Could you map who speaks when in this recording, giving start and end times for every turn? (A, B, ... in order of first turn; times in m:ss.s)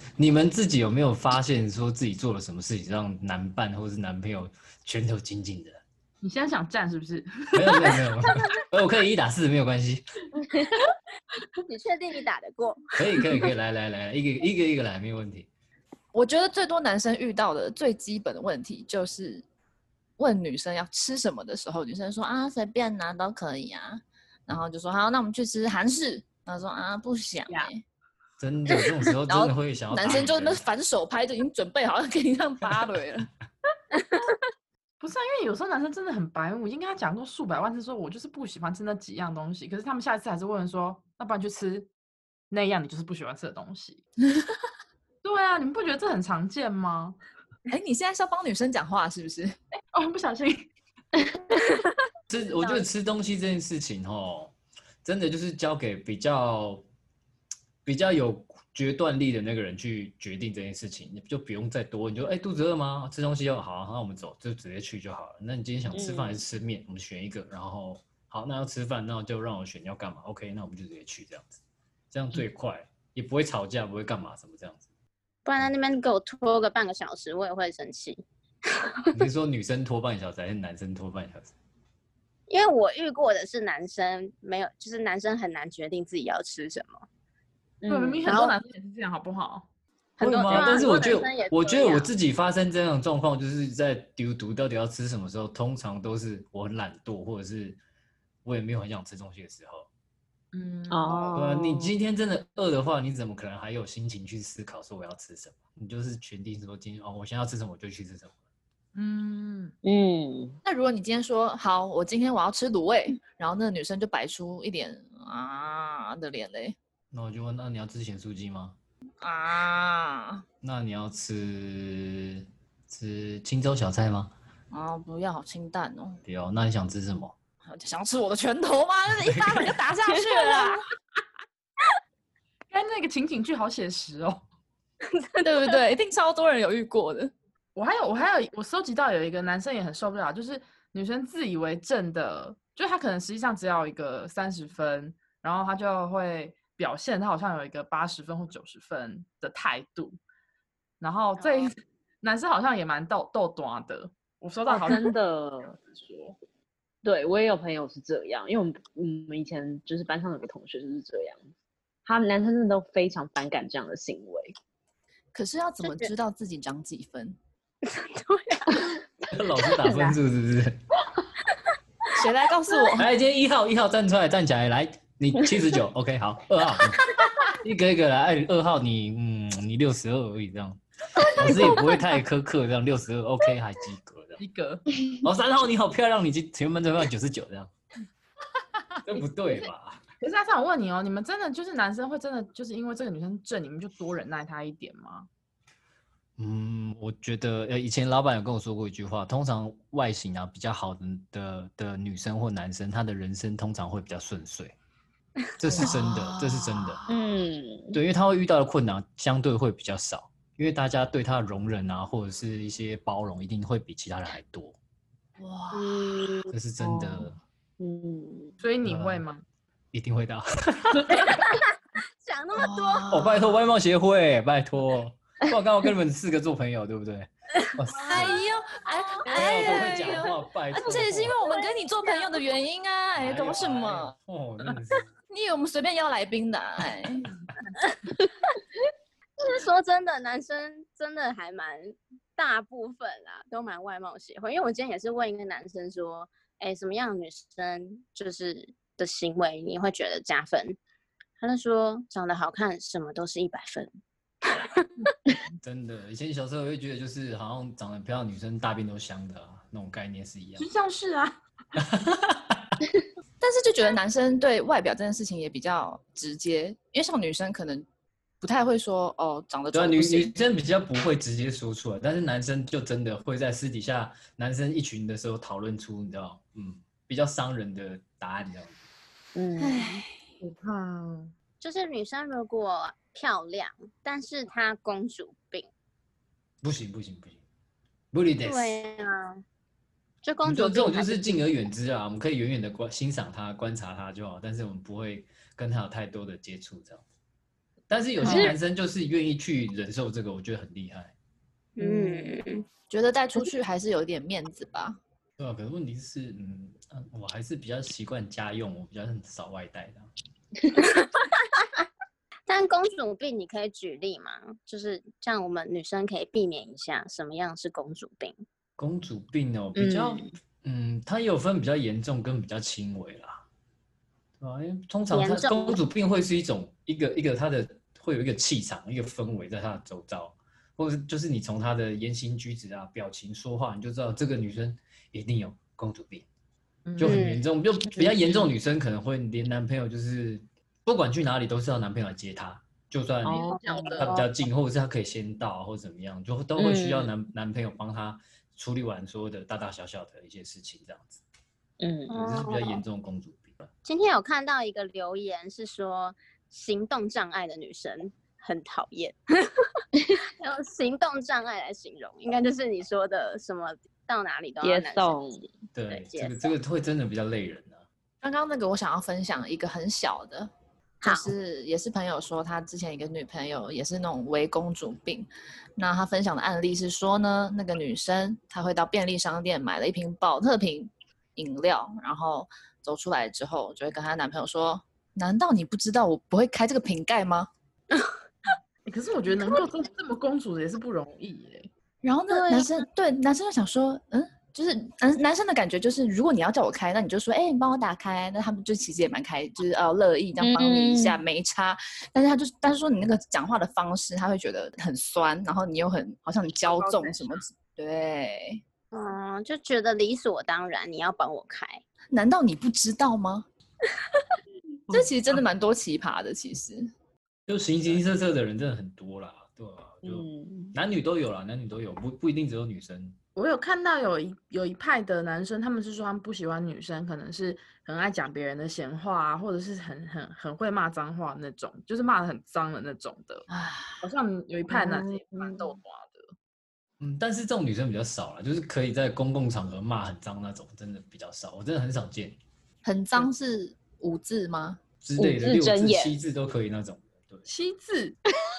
0:00.2-0:05.8 A
0:06.2-0:08.3 B
0:07.5-0:10.0 A
0:11.6-0:13.2 C
0:13.0-0:15.5 A
0:16.1-0:19.4 D
0:20.2-0:27.8 D
0:28.4-0:30.6 A
0:29.3-0:33.3 D
0:35.0-0:41.9 B
0:42.5-0:44.0 B
0:45.2-0:47.2 B
0:47.7-0:49.6 D
0:49.9-0:51.3 B
0:52.3-0:56.8 A
0:57.8-1:11.6 A
1:05.9-1:06.4 E
1:12.1-1:14.8 A
1:15.4-1:18.2 C
1:19.2-1:21.5 A
1:22.5-1:27.0 C
1:27.8-1:28.4 E
1:27.9-1:29.7 B
1:28.3-1:28.5 C
1:30.2-1:32.1 C
1:30.2-1:37.8 A
1:38.4-1:39.9 A
1:40.5-1:41.4 B
1:40.9-1:41.9 E
1:41.4-1:48.3 A
1:48.9-1:49.7 B
1:49.8-1:50.6 E
1:50.6-1:56.8 D
1:57.1-1:58.8 A
1:59.2-2:00.4 D
2:00.6-2:04.3 A
2:04.7-2:06.2 D
2:06.2-2:07.4 A
2:07.6-2:10.8 D
2:09.2-2:09.7 A
2:12.7-2:14.4 B
2:15.4-2:17.3 D
2:17.8-2:30.2 B
2:31.0-2:35.1 B
2:31.4-2:31.7 C
2:34.7-2:36.1 E
2:36.0-2:36.4 B
2:37.0-2:41.5 E
2:42.0-2:44.6 E
2:45.3-2:47.4 D
2:47.8-2:48.9 C
2:49.3-2:50.8 A
2:49.8-2:50.2 E
2:52.1-2:53.1 D
2:53.0-3:04.4 A
3:04.4-3:04.9 B
3:05.0-3:07.7 A
3:09.0-3:10.0 A
3:10.2-3:15.3 B
3:16.4-3:24.8 A
3:25.6-3:27.0 A
3:25.7-3:27.2 D
3:27.1-3:28.0 E
3:27.9-3:34.8 A
3:35.4-3:36.3 D
3:35.7-3:36.5 C
3:36.5-3:37.4 A
3:36.8-3:38.6 E
3:38.6-3:39.4 B
3:38.8-3:39.2 A
3:39.9-3:41.4 A
3:41.1-3:43.1 C
3:42.6-3:43.6 D
3:43.1-3:48.4 A
3:47.7-3:48.4 C
3:48.1-3:54.2 D
3:49.3-3:51.4 A
3:51.4-3:52.3 C
3:53.2-3:55.1 A
3:55.3-3:57.3 D
3:59.4-4:10.8 C
4:11.4-4:13.9 C
4:15.0-4:15.4 B
4:15.6-4:20.7 A
4:20.6-4:21.4 B
4:21.8-4:22.8 A
4:23.4-4:27.9 D
4:28.4-4:30.3 D
4:29.7-4:38.8 A
4:39.4-4:39.9 E
4:40.4-4:41.3 B
4:41.6-4:45.7 C
4:46.6-4:47.4 A
4:48.1-4:48.8 A
4:48.4-4:49.4 C
4:50.2-4:51.4 C
4:50.4-4:57.0 A
4:57.9-5:01.1 A
4:58.2-4:58.6 E
4:58.2-4:58.5 C
5:01.8-5:02.6 C
5:01.8-5:02.2 E
5:02.9-5:05.0 D
5:05.4-5:10.1 A
5:10.8-5:11.8 C
5:12.5-5:18.4 C
5:18.8-5:23.4 A
5:19.8-5:20.2 C
5:24.4-5:36.2 A
5:25.1-5:25.8 C
5:36.9-5:37.3 B
5:37.0-5:51.2 A
5:37.0-5:37.4 C
5:38.0-5:38.5 B
5:43.2-5:43.9 E
5:43.5-5:44.2 B
5:43.5-5:44.3 C
5:46.6-5:47.1 E
5:51.8-5:52.1 E
5:52.1-5:52.8 C
5:52.1-5:53.7 A
5:53.8-5:59.5 C
6:00.4-6:06.5 C
6:04.6-6:05.4 E
6:05.8-6:07.8 A
6:08.2-6:10.5 D
6:11.0-6:11.3 C
6:11.0-6:27.5 D
6:28.8-6:31.7 B
6:32.0-6:48.6 D
6:32.3-6:32.7 C
6:40.4-6:41.2 E
6:46.7-6:47.4 B
6:48.9-6:51.8 C
6:52.1-6:53.5 D
6:54.9-6:56.9 D
6:57.5-7:03.2 A
7:00.0-7:00.8 E
7:03.4-7:13.5 B
7:13.5-7:14.0 D
7:14.0-7:16.3 B
7:17.0-7:22.4 A
7:22.8-7:24.8 D
7:25.0-7:27.4 A
7:25.2-7:26.2 E
7:27.4-7:28.1 B